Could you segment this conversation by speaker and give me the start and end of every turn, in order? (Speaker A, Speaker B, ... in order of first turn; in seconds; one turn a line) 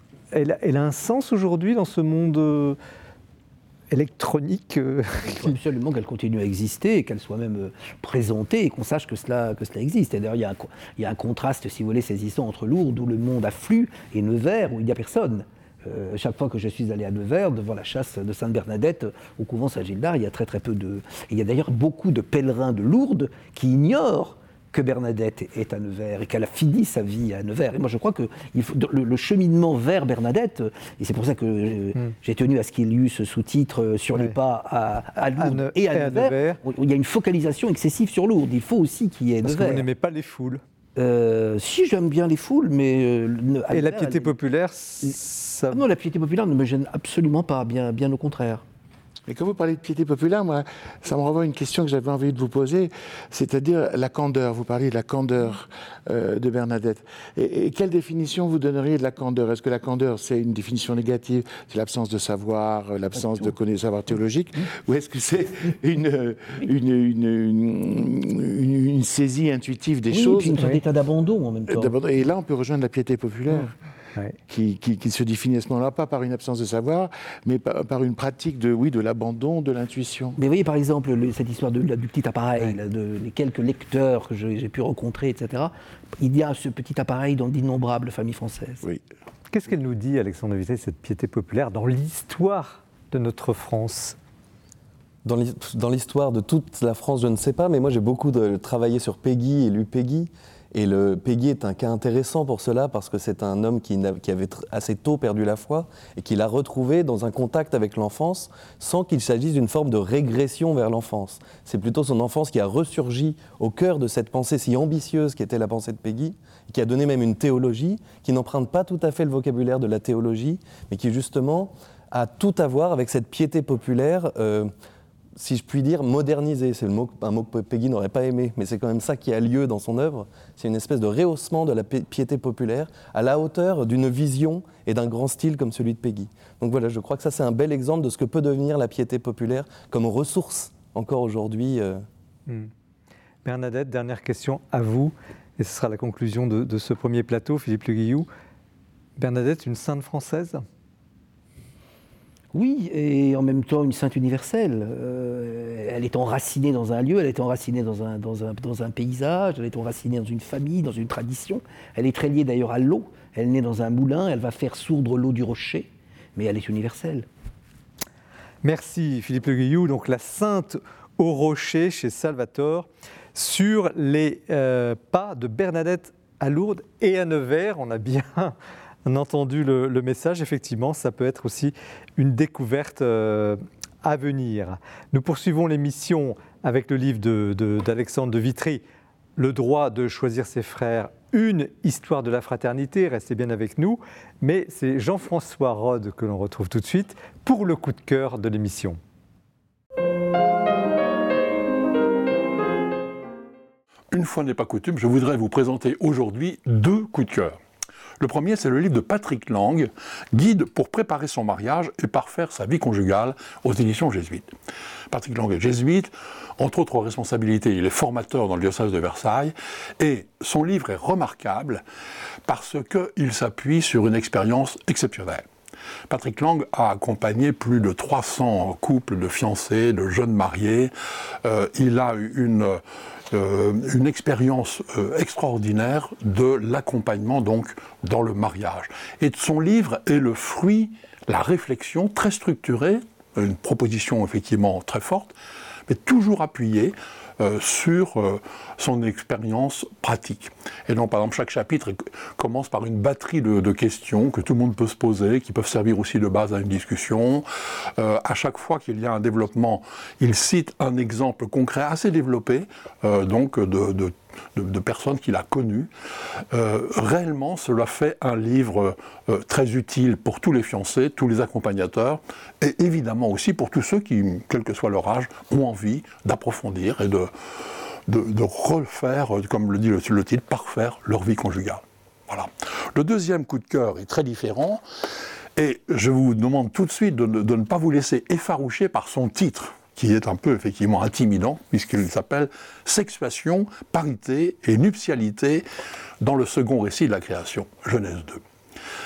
Speaker A: 0.3-2.8
Speaker A: 3.9-5.6
Speaker B: 5.2-39.9
Speaker A: 35.2-36.6
Speaker A: 39.4-40.6
Speaker B: 41.0-44.3
Speaker A: 43.7-45.9
Speaker B: 45.7-48.6
Speaker C: 49.3-70.7
Speaker B: 70.1-72.0
Speaker C: 71.7-73.7
Speaker C: 74.5-80.4
Speaker B: 80.4-88.8
Speaker A: 89.5-94.2
Speaker D: 95.2-124.7
Speaker D: 125.4-142.0
Speaker A: 143.4-148.3
Speaker A: 149.2-150.6
Speaker B: 152.5-167.3
Speaker A: 168.6-188.8
Speaker A: 189.4-199.0
Speaker E: 204.1-207.6
Speaker E: 208.2-214.5
Speaker E: 215.1-221.8
Speaker E: 222.5-225.5
Speaker E: 226.1-245.3
Speaker E: 245.9-265.9
Speaker E: 266.5-284.8
Speaker E: 285.6-295.7
Speaker E: 296.2-298.4